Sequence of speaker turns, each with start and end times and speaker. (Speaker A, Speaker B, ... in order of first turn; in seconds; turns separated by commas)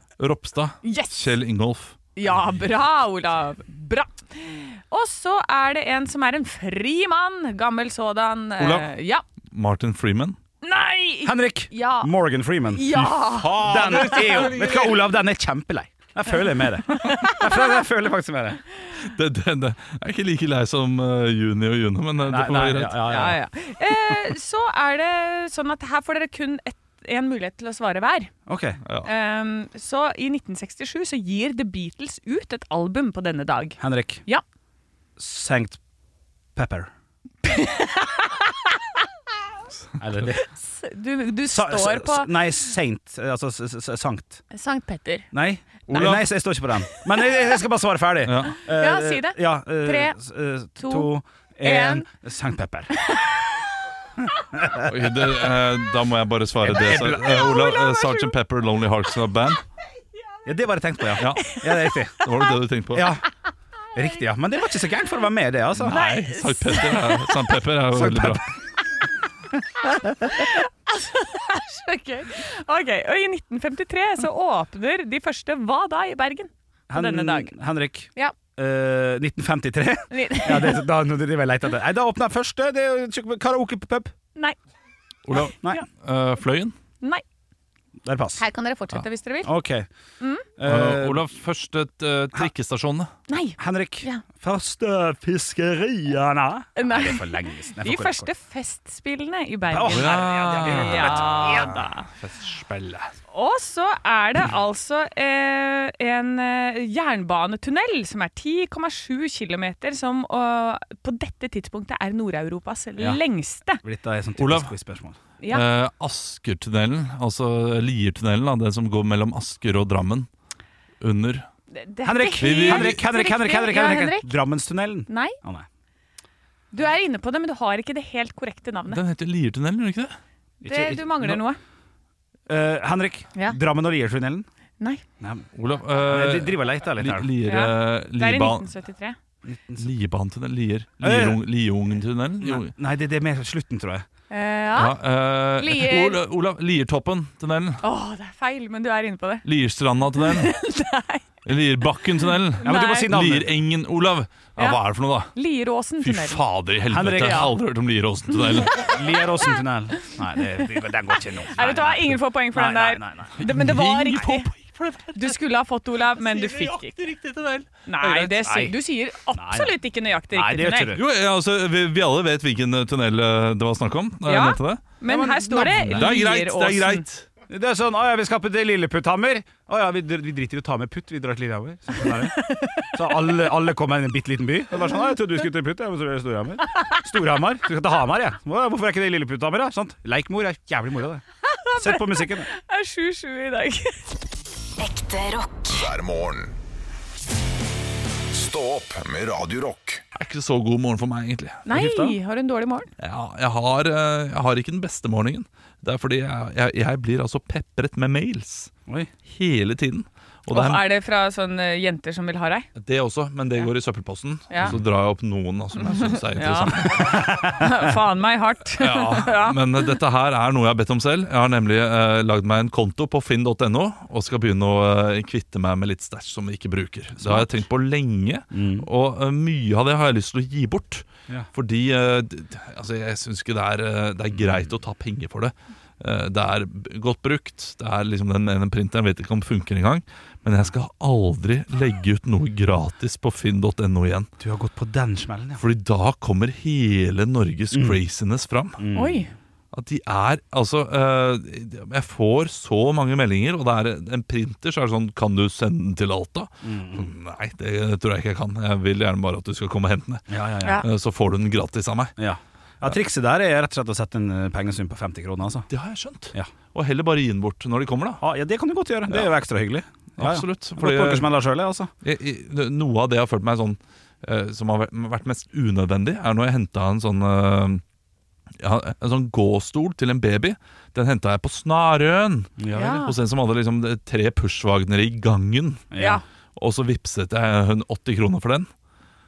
Speaker A: 0.2-1.9, Speaker B: 0.8-1.3, Speaker B: 2.1-9.2, Speaker A: 8.6-8.9, Speaker A: 9.5-10.4, Speaker B: 10.6-12.1, Speaker C: 11.2-18.6, Speaker B: 12.7-14.9, Speaker A: 13.8-14.3, Speaker B: 16.9-17.6, Speaker A: 19.0-23.2, Speaker C: 22.2-23.4, Speaker B: 23.0-28.3, Speaker C: 28.5-28.8, Speaker A: 28.8-29.1, Speaker B: 29.0-34.4, Speaker C: 33.8-34.2, Speaker C: 35.2-35.8, Speaker C: 36.5-36.9, Speaker B: 37.4-38.5, Speaker C: 40.0-40.5, Speaker B: 40.5-42.3, Speaker C: 41.5-44.4, Speaker B: 44.5-45.3, Speaker C: 45.3-52.9, Speaker A: 45.9-46.3, Speaker A: 48.2-48.5, Speaker B: 48.6-50.2, Speaker B: 50.8-51.1, Speaker B: 51.6-52.1, Speaker B: 53.0-53.5, Speaker C: 54.5-55.1, Speaker A: 54.8-59.6, Speaker C: 56.6-57.5, Speaker B: 57.2-58.3, Speaker C: 60.4-62.2, Speaker A: 61.2-61.6, Speaker B: 61.4-61.6, Speaker A: 62.2-63.1, Speaker C: 62.9-63.2, Speaker C: 63.9-66.0, Speaker A: 65.8-68.4, Speaker B: 65.8-67.4, Speaker C: 67.9-68.4, Speaker B: 70.2-77.5, Speaker C: 76.9-84.1, Speaker B: 80.1-80.8, Speaker A: 85.2-86.7, Speaker B: 85.4-85.8, Speaker C: 88.0-88.4, Speaker B: 88.4-89.5, Speaker C: 89.4-89.9, Speaker B: 90.2-90.5, Speaker C: 90.6-91.2, Speaker A: 90.6-93.1, Speaker B: 93.3-94.2, Speaker C: 93.6-98.3, Speaker B: 96.8-102.1, Speaker C: 99.7-101.8, Speaker A: 99.9-103.1, Speaker B: 103.3-113.8, Speaker C: 113.8-115.2, Speaker A: 114.4-114.7, Speaker B: 115.4-115.6, Speaker A: 115.5-120.3, Speaker A: 121.0-121.5, Speaker B: 121.7-124.3, Speaker C: 122.0-125.7, Speaker A: 122.4-123.0, Speaker B: 125.1-125.3, Speaker B: 126.7-129.0, Speaker A: 128.9-130.2, Speaker C: 130.6-131.4, Speaker B: 130.6-131.6, Speaker C: 132.5-134.5, Speaker C: 135.2-137.3, Speaker A: 135.5-138.7, Speaker B: 137.4-139.2, Speaker C: 139.4-139.9, Speaker A: 139.8-142.7, Speaker C: 141.0-141.4, Speaker C: 142.4-144.1, Speaker B: 144.3-145.0, Speaker A: 144.7-147.8, Speaker B: 145.6-146.2, Speaker B: 147.8-149.4, Speaker A: 149.4-150.5, Speaker B: 150.2-151.2, Speaker A: 151.4-155.3, Speaker B: 152.6-153.1, Speaker C: 152.6-153.5, Speaker B: 155.3-156.4, Speaker A: 156.0-159.0, Speaker C: 156.9-157.5, Speaker B: 158.4-159.0, Speaker C: 158.6-163.4, Speaker B: 161.5-164.5, Speaker A: 163.4-165.4, Speaker B: 165.1-166.9, Speaker A: 166.2-168.3, Speaker B: 167.8-170.9, Speaker C: 168.3-168.7, Speaker C: 169.3-169.7, Speaker C: 170.3-171.0, Speaker A: 170.9-174.8, Speaker B: 174.2-177.0, Speaker C: 175.1-176.1, Speaker A: 175.8-177.3, Speaker C: 177.5-191.2, Speaker B: 182.0-183.0, Speaker B: 191.4-194.0, Speaker C: 191.8-192.5, Speaker D: 195.5-196.6, Speaker D: 198.3-200.0, Speaker A: 200.1-201.6, Speaker B: 201.7-202.9, Speaker C: 201.7-202.2, Speaker A: 203.0-208.7, Speaker A: 209.3-210.8, Speaker B: 210.5-212.7, Speaker A: 212.7-217.4, Speaker B: 214.5-214.7, Speaker B: 215.8-219.9, Speaker C: 217.0-217.7, Speaker A: 218.8-244.3, Speaker C: 227.2-227.5, Speaker C: 228.5-228.9, Speaker C: 244.4-245.6, Speaker A: 245.6-248.8, Speaker C: 247.7-248.0, Speaker C: 248.8-249.2, Speaker B: 248.9-249.3, Speaker A: 249.7-262.1, Speaker C: 256.6-257.1, Speaker C: 260.3-260.8, Speaker C: 262.2-265.7, Speaker A: 265.7-268.2, Speaker C: 268.2-271.9, Speaker A: 270.2-271.3, Speaker A: 272.0-277.8, Speaker A: 278.6-285.9, Speaker C: 282.6-283.0, Speaker B: 282.7-283.1, Speaker C: 285.9-286.2, Speaker B: 286.0-286.2, Speaker A: 286.6-288.7